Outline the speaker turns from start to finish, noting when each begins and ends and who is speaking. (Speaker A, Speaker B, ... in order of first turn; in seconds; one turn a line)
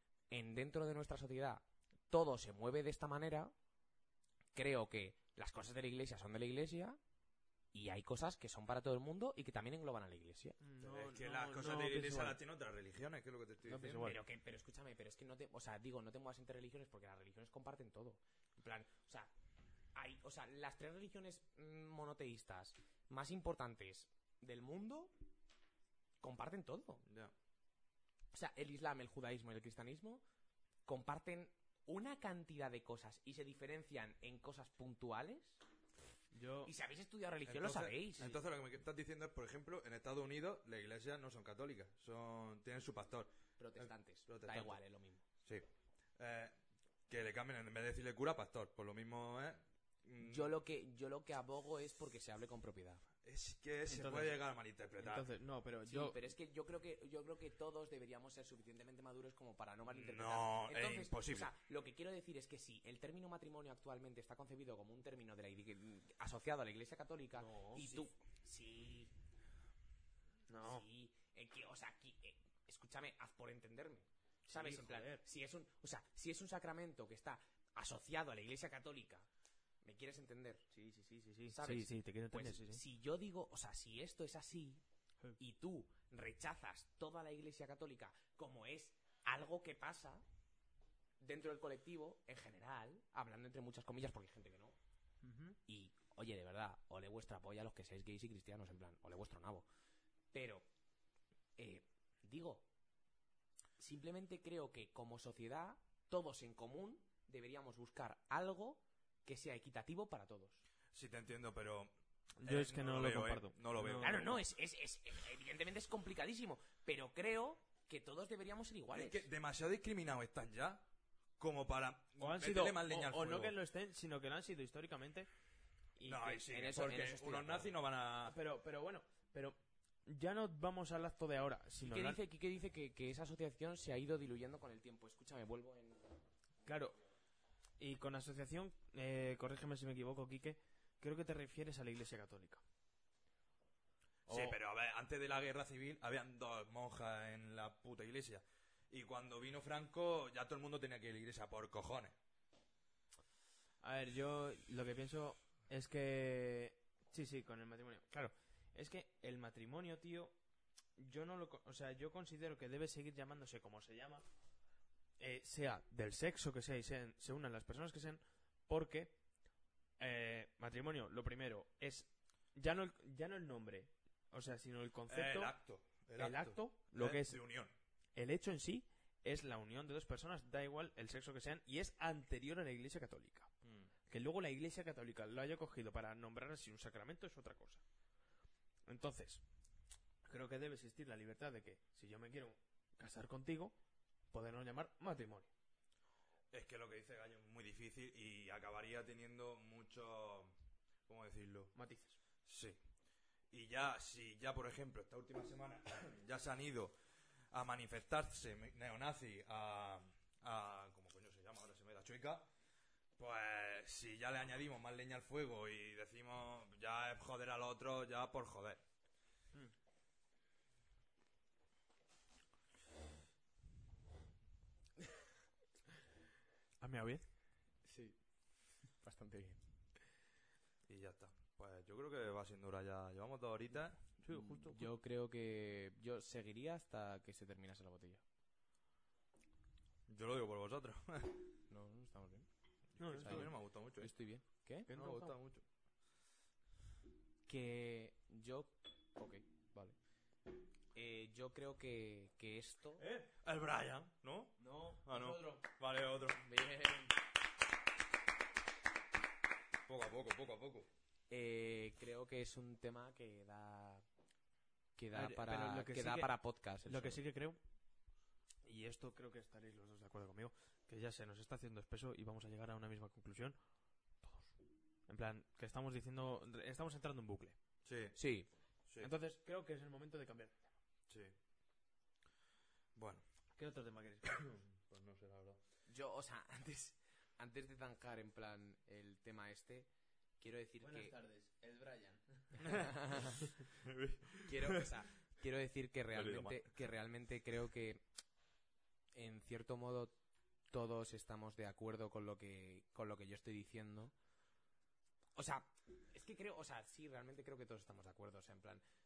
Speaker A: 0.3-3.5
Speaker A: 4.5-7.0
Speaker A: 7.7-10.6
Speaker B: 10.6-12.4
Speaker C: 10.8-14.1
Speaker B: 13.6-14.2
Speaker A: 14.0-19.3
Speaker A: 19.9-25.1
Speaker A: 26.2-27.0
Speaker C: 27.0-27.3
Speaker A: 28.3-30.2
Speaker A: 30.9-35.6
Speaker B: 36.3-36.7
Speaker A: 36.6-38.4
Speaker C: 37.5-44.8
Speaker A: 43.6-45.2
Speaker C: 46.2-46.5
Speaker C: 47.1-50.5
Speaker A: 50.2-53.0
Speaker C: 53.2-55.3
Speaker B: 53.9-54.4
Speaker B: 55.0-56.2
Speaker A: 55.9-69.1
Speaker C: 59.9-61.5
Speaker B: 67.3-68.0
Speaker B: 70.5-70.8
Speaker A: 70.6-79.3
Speaker B: 74.5-75.2
Speaker A: 79.8-80.7
Speaker B: 80.7-82.8
Speaker A: 81.5-84.8
Speaker A: 85.4-90.2
Speaker A: 91.2-94.8
Speaker B: 95.2-95.6
Speaker A: 95.7-99.7
Speaker A: 100.3-100.7
Speaker A: 101.6-102.7
Speaker A: 103.8-110.6
Speaker C: 110.9-114.3
Speaker B: 112.4-114.4
Speaker A: 114.0-119.3
Speaker C: 118.9-120.9
Speaker C: 121.4-123.5
Speaker B: 122.2-125.3
Speaker B: 126.0-126.9
Speaker C: 126.0-128.3
Speaker A: 126.5-127.7
Speaker B: 128.2-132.2
Speaker A: 131.8-136.2
Speaker B: 136.6-136.9
Speaker B: 137.8-142.6
Speaker B: 144.3-144.6
Speaker C: 144.3-152.1
Speaker B: 153.8-160.4
Speaker B: 160.9-164.2
Speaker B: 165.2-169.2
Speaker B: 170.0-175.5
Speaker C: 175.1-177.7
Speaker B: 176.2-177.4
Speaker B: 178.2-183.5
Speaker C: 183.6-183.9
Speaker B: 184.1-187.8
Speaker B: 188.9-189.4
Speaker B: 190.2-193.8
Speaker B: 194.3-195.5
Speaker C: 196.5-200.5
Speaker C: 201.1-201.7
Speaker B: 201.7-202.2
Speaker C: 202.4-202.8
Speaker C: 203.5-206.9
Speaker C: 207.5-212.5
Speaker C: 213.2-218.8
Speaker B: 226.8-227.2
Speaker A: 227.8-228.2
Speaker A: 229.0-229.6
Speaker C: 230.8-234.2
Speaker B: 234.2-234.9
Speaker A: 234.3-238.2
Speaker C: 240.1-241.5
Speaker A: 241.7-242.5
Speaker C: 242.9-244.1
Speaker B: 243.0-243.5
Speaker A: 243.1-244.9
Speaker B: 244.9-245.4
Speaker C: 244.9-245.6
Speaker A: 247.4-249.9
Speaker A: 250.9-253.0
Speaker B: 253.0-253.3
Speaker C: 253.3-256.4
Speaker B: 254.6-255.6
Speaker A: 256.4-257.1
Speaker C: 259.9-260.9
Speaker A: 261.3-264.0
Speaker A: 264.9-267.2
Speaker B: 265.1-266.3
Speaker B: 266.9-267.6
Speaker B: 268.6-273.6
Speaker B: 274.2-274.5
Speaker B: 275.1-277.6
Speaker C: 277.8-278.1
Speaker A: 278.1-278.5
Speaker C: 278.9-279.1
Speaker B: 279.0-280.7
Speaker C: 281.1-281.3
Speaker C: 282.9-283.2
Speaker B: 283.5-284.5
Speaker C: 284.2-285.6
Speaker A: 285.9-291.1
Speaker B: 290.8-292.6
Speaker C: 292.6-292.9
Speaker A: 292.7-293.5
Speaker C: 293.7-294.9
Speaker A: 294.4-298.0
Speaker C: 296.1-296.7
Speaker A: 299.1-300.2
Speaker A: 300.7-304.1
Speaker A: 305.4-308.8